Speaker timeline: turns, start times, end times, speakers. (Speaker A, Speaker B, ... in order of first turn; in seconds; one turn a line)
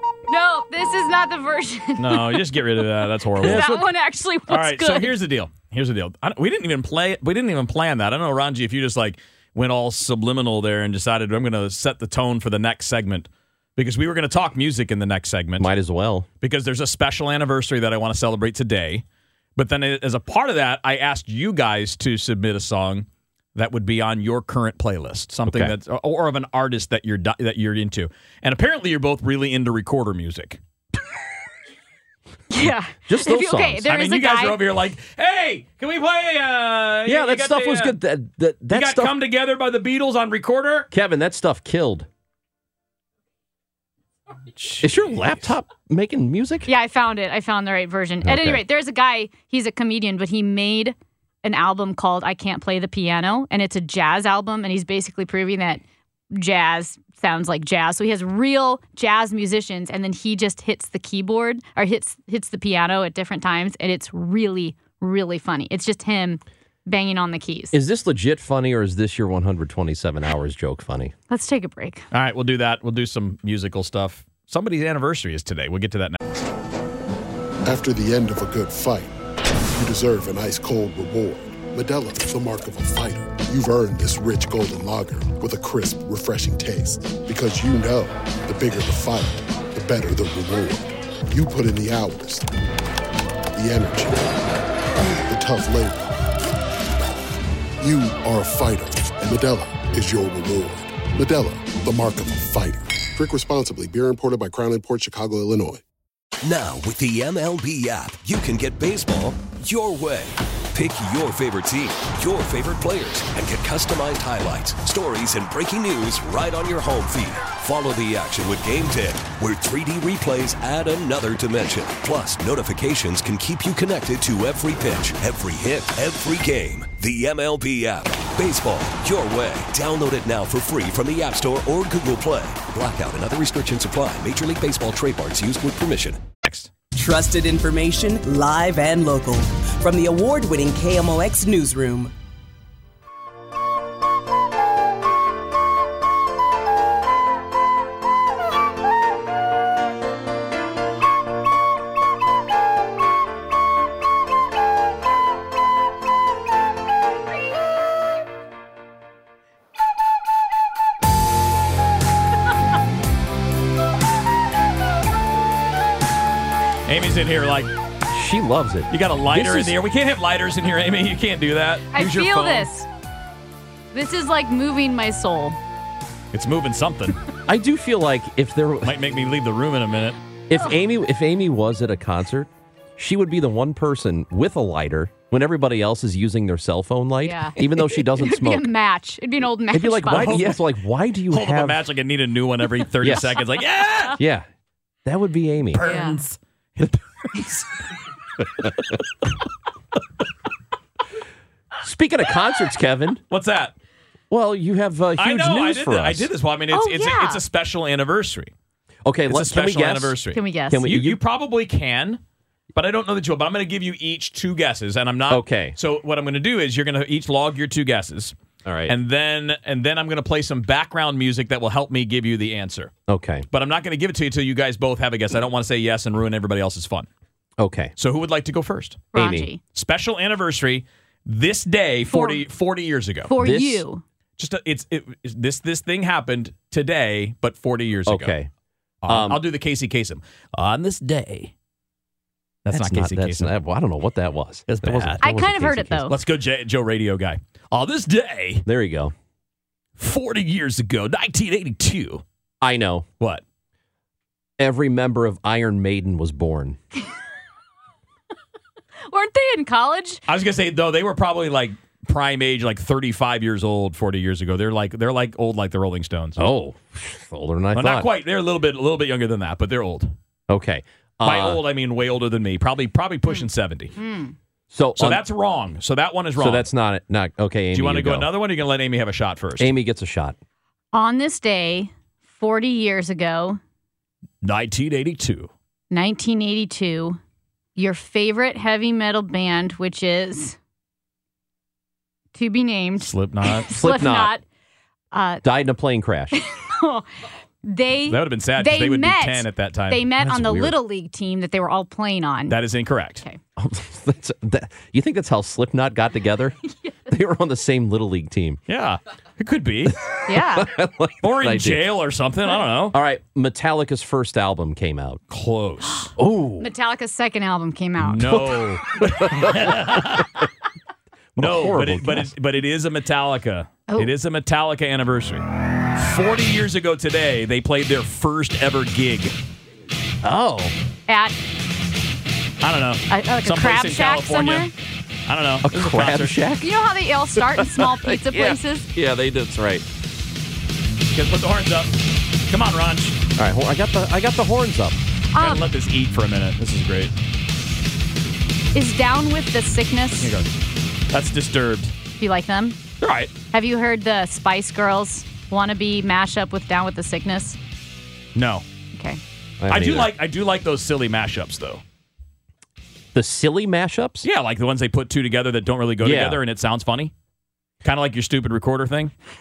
Speaker A: 0.3-2.6
Speaker B: 2.0-3.8
Speaker A: 3.4-5.1
Speaker C: 3.4-3.9
Speaker B: 4.5-15.7
Speaker C: 15.6-16.3
Speaker B: 16.4-19.0
Speaker B: 19.6-30.6
Speaker C: 25.5-25.7
Speaker A: 32.5-34.6
Speaker C: 33.0-33.9
Speaker B: 33.8-38.0
Speaker C: 37.0-39.2
Speaker B: 38.7-40.9
Speaker C: 40.9-42.1
Speaker C: 44.7-46.7
Speaker A: 46.7-67.8
Speaker C: 48.2-48.6
Speaker C: 67.7-71.1
Speaker A: 71.3-72.0
Speaker B: 72.1-76.2
Speaker D: 77.6-79.1
Speaker D: 79.7-92.5
Speaker D: 93.5-94.5
Speaker D: 95.2-96.1
Speaker D: 97.8-105.8
Speaker E: 106.4-136.2
Speaker B: 136.4-136.7
Speaker F: 136.9-142.1
Speaker B: 166.9-167.7
Speaker C: 168.1-169.8
Speaker B: 168.9-172.7
Speaker A: 171.9-172.9
Speaker A: 173.9-175.6
Speaker B: 176.3-177.2
Speaker C: 177.5-179.0
Speaker B: 178.8-180.2
Speaker C: 180.5-188.7
Speaker A: 187.2-190.4
Speaker C: 189.7-191.8
Speaker B: 190.1-190.6
Speaker B: 191.3-194.2
Speaker C: 193.0-193.3
Speaker C: 194.1-194.5
Speaker C: 195.0-195.9
Speaker B: 195.7-197.6
Speaker A: 195.8-196.2
Speaker C: 201.8-203.2
Speaker B: 203.3-203.7
Speaker C: 204.3-206.3
Speaker B: 205.2-208.5
Speaker A: 206.7-207.4
Speaker C: 209.0-210.2
Speaker B: 209.3-212.2
Speaker A: 210.3-210.8
Speaker C: 210.7-211.2
Speaker B: 212.7-218.3
Speaker C: 215.3-215.7
Speaker C: 218.6-218.9
Speaker B: 218.9-222.9
Speaker C: 223.1-223.4
Speaker B: 223.5-227.1
Speaker C: 227.6-227.9
Speaker B: 228.0-229.1
Speaker A: 229.1-229.6
Speaker C: 229.1-229.5
Speaker B: 229.7-233.3
Speaker A: 232.1-232.4
Speaker A: 233.3-234.0
Speaker C: 233.4-233.8
Speaker B: 234.4-238.3
Speaker C: 238.1-238.5
Speaker B: 239.0-241.5
Speaker C: 239.1-239.4
Speaker B: 242.6-243.5
Speaker C: 242.7-246.1
Speaker B: 244.7-245.2
Speaker A: 245.2-246.2
Speaker B: 246.1-248.6
Speaker C: 248.7-249.1
Speaker B: 250.0-252.2
Speaker C: 252.6-253.1
Speaker C: 254.6-256.8
Speaker A: 259.1-260.2
Speaker B: 260.3-266.5
Speaker C: 266.4-268.1
Speaker B: 267.7-270.1
Speaker C: 270.5-271.6
Speaker B: 271.2-273.9
Speaker A: 274.0-274.3
Speaker C: 274.7-275.2
Speaker B: 275.0-276.6
Speaker C: 276.4-278.3
Speaker B: 277.7-279.7
Speaker C: 279.6-280.4
Speaker A: 280.9-283.6
Speaker B: 284.4-285.5
Speaker A: 285.9-287.2
Speaker A: 287.8-290.6
Speaker A: 292.3-294.4
Speaker B: 293.0-293.7
Speaker C: 293.7-294.3
Speaker A: 295.1-295.4
Speaker C: 295.4-296.4
Speaker A: 296.3-297.1
Speaker A: 297.6-302.6
Speaker B: 298.1-300.1
Speaker C: 300.2-300.8
Speaker B: 302.5-303.2
Speaker C: 303.6-306.5
Speaker C: 307.1-308.6
Speaker B: 308.7-310.0
Speaker A: 310.3-310.7
Speaker C: 310.3-311.9
Speaker B: 311.2-312.9
Speaker C: 312.9-315.2
Speaker B: 315.3-316.1
Speaker C: 316.2-316.7
Speaker A: 316.6-318.4
Speaker B: 318.0-320.5
Speaker C: 318.3-320.2
Speaker C: 321.4-322.3
Speaker B: 321.4-329.3
Speaker C: 330.2-330.7
Speaker A: 331.1-331.4
Speaker B: 332.6-334.7
Speaker A: 333.1-334.7
Speaker B: 335.3-336.4
Speaker C: 335.6-336.7
Speaker A: 336.6-338.9
Speaker C: 337.4-339.8
Speaker B: 341.1-343.2
Speaker C: 343.4-345.0
Speaker A: 345.3-345.6
Speaker B: 345.4-347.1
Speaker A: 348.7-350.3
Speaker B: 350.2-350.5
Speaker B: 351.1-351.9
Speaker A: 352.2-352.8
Speaker B: 353.0-353.3
Speaker A: 353.5-357.6
Speaker B: 358.3-358.6
Speaker A: 358.9-359.2
Speaker C: 359.6-360.1
Speaker B: 359.7-361.8
Speaker C: 363.1-364.2
Speaker B: 364.2-367.1
Speaker C: 366.0-366.4
Speaker B: 367.8-369.1